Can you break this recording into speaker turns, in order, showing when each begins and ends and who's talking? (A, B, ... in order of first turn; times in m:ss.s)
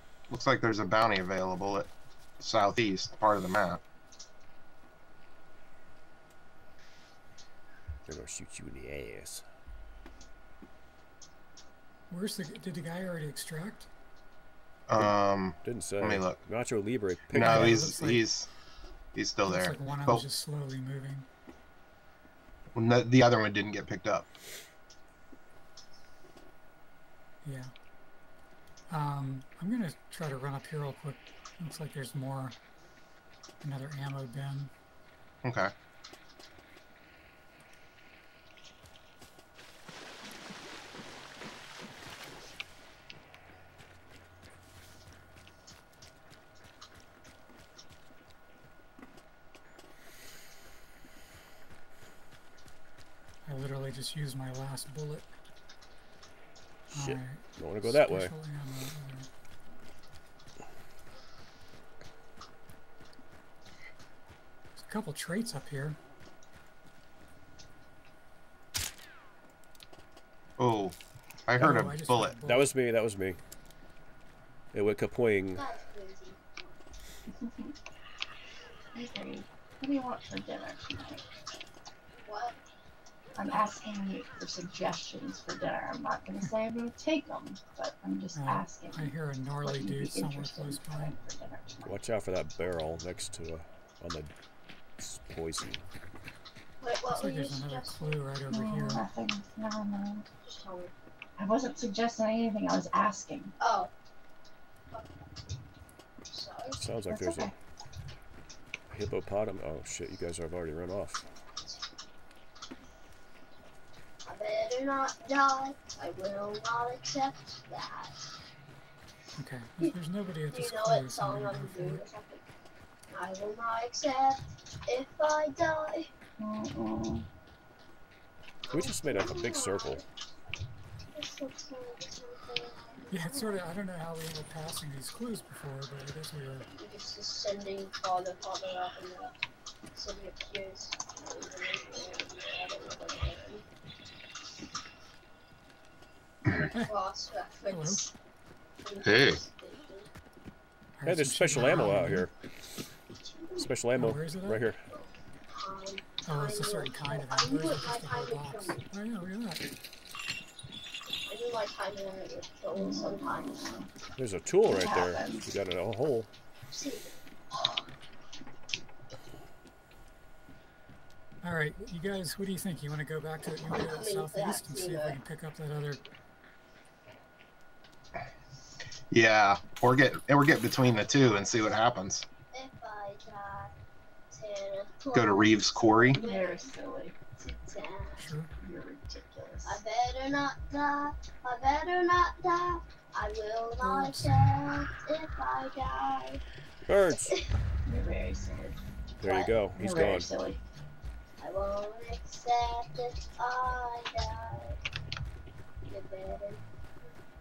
0:00.3-0:03.8 A
0:08.1-0:09.4 B
0:12.1-0:13.9 C
0:14.9-0:16.4 A
0:15.6-0:17.9 B
0:17.3-0:18.5 A
0:17.4-0:18.2 C
0:19.1-0:20.2 A
0:19.4-0:21.3 C
0:22.7-0:24.2 A
0:27.4-0:27.7 C
0:28.9-0:32.6 C
0:33.6-0:34.7 C
0:35.4-0:35.7 A
0:53.4-0:55.3 C
0:56.9-0:58.3 B
0:56.9-0:59.3 C
1:04.8-1:06.0 C
1:10.6-1:11.0 A
1:11.5-1:12.3 A
1:11.6-1:12.7 C
1:12.4-1:13.4 B
1:14.7-1:15.7 B
1:15.5-1:16.8 D
1:17.3-1:17.7 E
1:18.9-1:21.2 E
1:22.2-1:22.6 D
1:23.4-1:32.0 E
1:28.3-1:31.2 C
1:31.8-1:34.3 B
1:35.0-1:35.8 B
1:36.8-1:38.2 D
1:37.1-1:39.1 C
1:38.5-1:40.3 E
1:40.4-1:40.9 D
1:41.4-1:43.5 E
1:43.6-1:43.9 D
1:44.9-1:45.3 D
1:46.3-1:46.9 D
1:46.8-1:47.5 B
1:47.1-1:47.5 E
1:48.9-1:51.2 B
1:54.2-1:58.2 D
1:59.4-2:02.0 C
2:00.5-2:02.4 D
2:03.1-2:06.1 D
2:06.4-2:07.2 E
2:08.7-2:10.0 D
2:08.7-2:10.0 B
2:11.1-2:13.6 D
2:13.1-2:16.7 C
2:16.7-2:19.3 D
2:19.9-2:23.6 D
2:26.5-2:28.1 D
2:27.7-2:28.0 C
2:28.8-2:30.1 D
2:29.0-2:29.4 A
2:31.0-2:32.3 C
2:31.0-2:32.3 B
2:33.2-2:33.7 D
2:33.6-2:34.8 B
2:33.9-2:34.7 C
2:34.9-2:38.8 D
2:36.2-2:39.7 C
2:41.2-2:43.7 D
2:42.7-2:43.9 E
2:44.2-2:46.3 B
2:44.6-2:45.5 E
2:46.7-2:47.1 D
2:51.4-2:56.0 C
2:53.6-2:55.2 D
2:59.1-3:02.2 A
3:02.5-3:03.7 D
3:04.3-3:06.8 D
3:05.1-3:06.2 A
3:06.1-3:07.2 E
3:07.4-3:08.2 D
3:08.2-3:08.5 C
3:08.6-3:09.8 E
3:09.6-3:16.4 D
3:13.8-3:14.3 C
3:16.9-3:17.4 B
3:17.1-3:17.5 D
3:17.8-3:20.6 E
3:19.2-3:20.3 B
3:21.4-3:24.8 D
3:25.8-3:27.1 D